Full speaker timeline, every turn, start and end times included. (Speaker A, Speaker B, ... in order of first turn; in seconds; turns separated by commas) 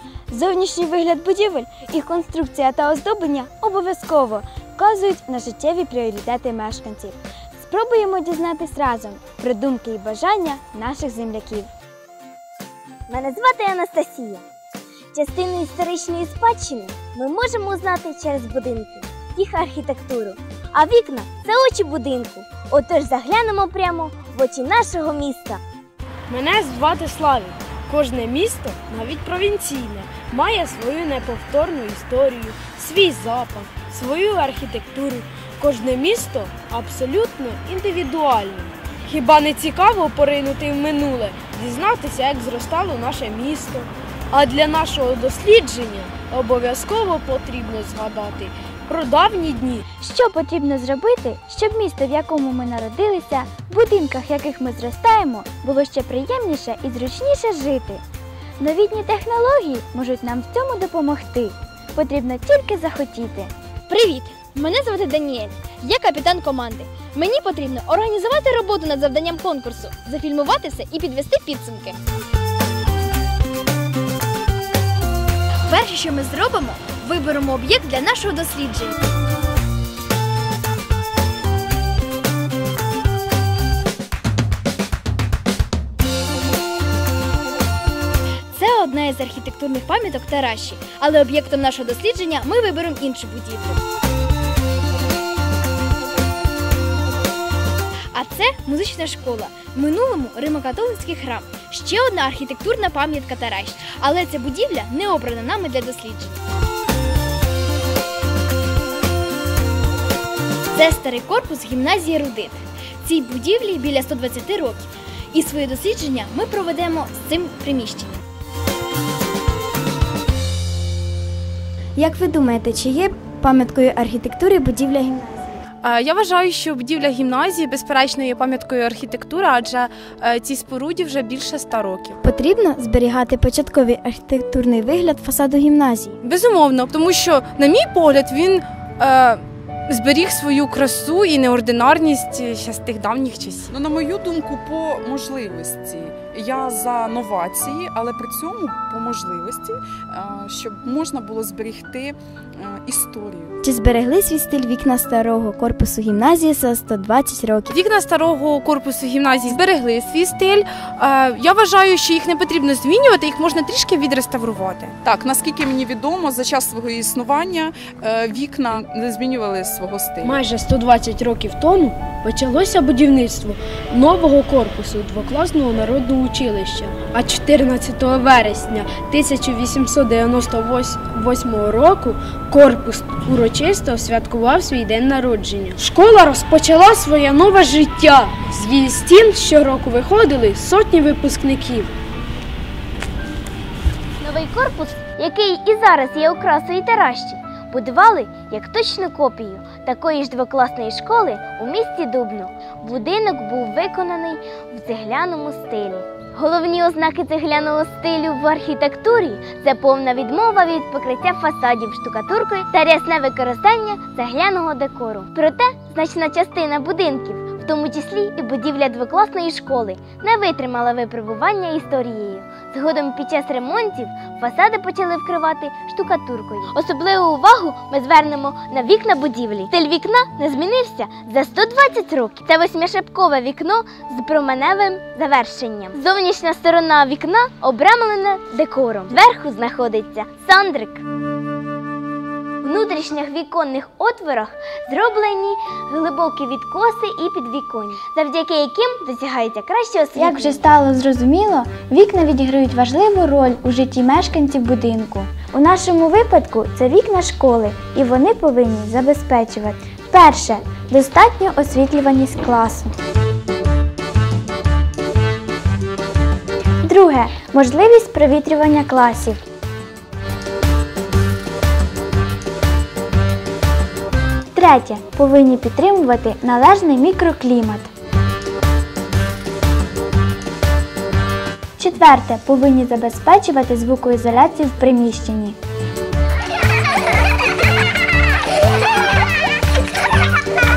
Speaker A: 0.3-11.7, Speaker B: 13.1-14.4, Speaker B: 15.1-25.6, Speaker C: 26.3-49.8, Speaker A: 50.0-58.0, Speaker A: 58.6-63.5, Speaker D: 63.9-72.0, Speaker D: 75.7-79.0, Speaker D: 88.5-93.8, Speaker D: 98.1-106.3, Speaker D: 110.7-118.1, Speaker A: 122.0-125.6, Speaker E: 125.8-132.2, Speaker A: 132.2-136.2, Speaker E: 136.2-143.8, Speaker F: 143.7-153.5, Speaker A: 153.6-157.7, Speaker E: 157.7-164.9, Speaker F: 165.0-170.4, Speaker C: 170.2-191.9, Speaker B: 194.2-241.0, Speaker B: 242.6-250.7, Speaker A: 250.2-263.0, Speaker A: 266.8-269.4, Speaker A: 274.5-277.9, Speaker A: 281.8-285.6